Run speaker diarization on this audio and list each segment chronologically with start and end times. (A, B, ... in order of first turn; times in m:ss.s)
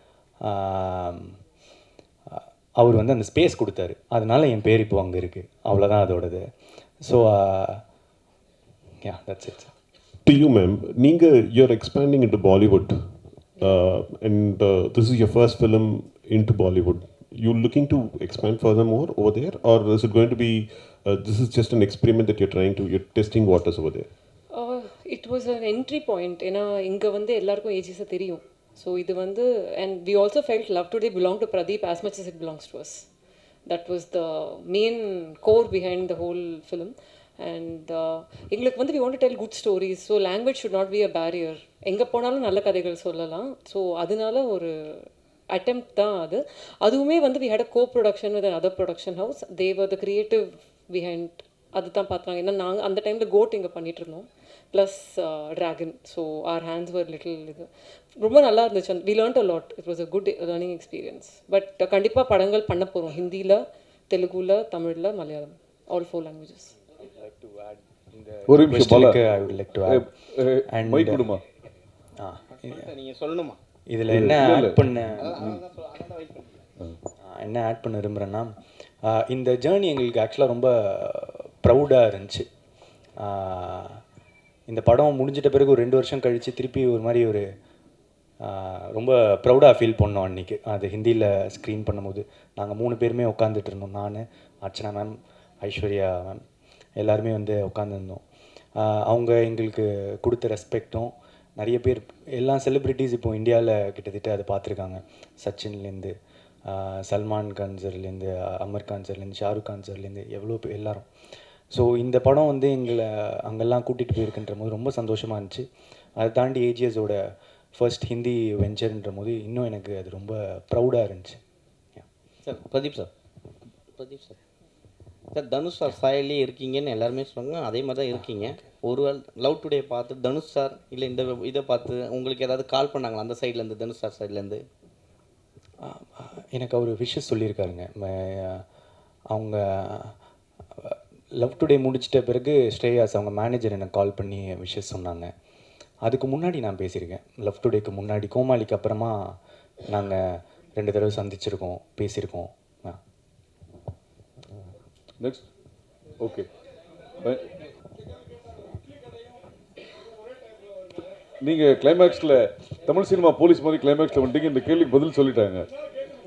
0:00.5-0:01.4 A
0:02.3-0:06.5 A
0:07.0-0:07.8 A
0:09.0-0:09.7 A
0:10.3-0:24.1 B
0:24.5-0:33.0 C
0:33.7-1:06.7 C
1:08.2-1:10.1 A
1:08.5-1:09.3 D
1:09.9-1:11.4 D
1:10.7-1:11.3 A
1:12.2-1:12.8 A
1:12.5-1:13.6 E
1:13.9-1:15.2 A
1:14.1-1:14.8 D
1:15.2-1:16.6 E
1:15.4-1:15.6 D
1:17.2-1:18.5 A
1:19.1-1:22.5 A
1:23.2-1:24.0 A
1:24.7-1:27.5 A
1:28.4-1:36.4 A
1:37.0-1:38.2 A
1:38.8-1:46.1 A
1:46.7-1:51.1 A
1:51.7-1:55.7 A
1:56.2-1:57.2 A
1:57.8-2:01.4 A
2:02.4-2:03.1 E
2:03.9-2:04.4 E
2:05.3-2:14.6 E
2:15.8-2:18.6 A
2:19.3-2:20.2 A
2:20.8-2:25.3 A
2:26.0-2:29.2 A
2:29.9-2:33.0 A
2:36.2-2:36.5 D
2:41.4-2:45.7 D